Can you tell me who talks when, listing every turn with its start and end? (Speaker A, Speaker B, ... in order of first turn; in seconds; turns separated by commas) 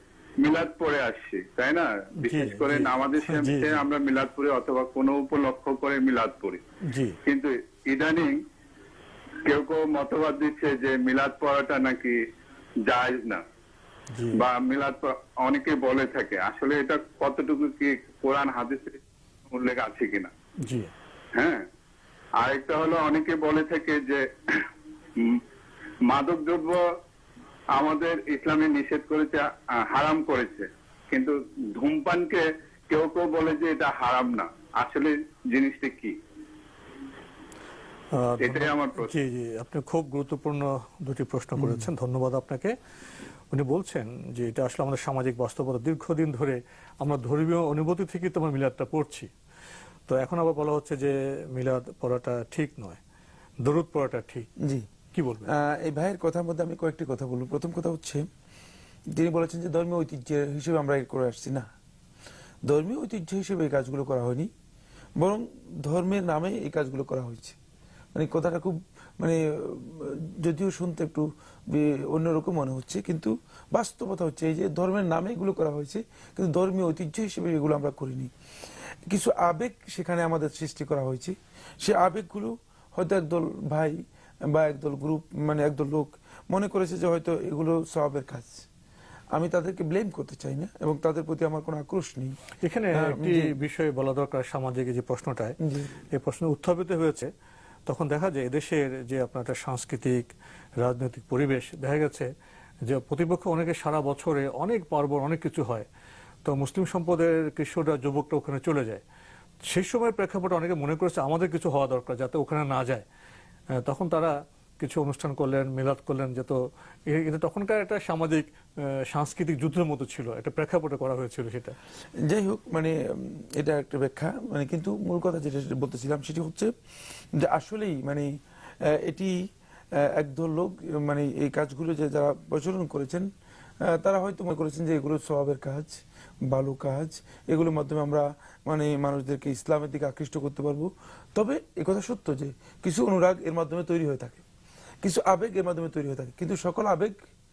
Speaker A: 0.4-6.6, Speaker B: 2.2-3.8, Speaker B: 6.9-7.2, Speaker A: 7.3-8.4, Speaker A: 9.5-12.2, Speaker A: 12.9-13.4, Speaker B: 14.1-14.4, Speaker A: 14.3-20.3, Speaker B: 20.6-20.9, Speaker A: 21.4-21.6, Speaker A: 22.4-24.7, Speaker A: 26.1-26.8, Speaker A: 27.8-36.1, Speaker B: 38.1-42.8, Speaker A: 38.4-39.1, Speaker C: 41.6-41.9, Speaker B: 43.5-49.3, Speaker B: 50.1-53.0, Speaker B: 53.6-54.5, Speaker C: 54.6-54.9, Speaker B: 55.1-55.5, Speaker C: 55.5-58.3, Speaker C: 59.1-61.7, Speaker C: 62.7-64.5, Speaker C: 65.2-67.6, Speaker C: 68.2-78.3, Speaker C: 79.1-88.7, Speaker C: 89.3-92.3, Speaker B: 92.6-95.6, Speaker C: 92.9-93.6, Speaker C: 95.6-95.9, Speaker B: 96.1-97.3, Speaker B: 97.9-100.3, Speaker B: 100.8-102.3, Speaker B: 102.9-105.9, Speaker B: 106.5-109.0, Speaker B: 109.7-113.0, Speaker B: 113.8-116.6, Speaker B: 117.1-118.5, Speaker B: 119.1-121.8, Speaker C: 122.2-126.7, Speaker C: 127.4-128.3, Speaker C: 128.8-129.4, Speaker C: 130.0-133.3, Speaker C: 133.9-144.4, Speaker C: 145.0-147.2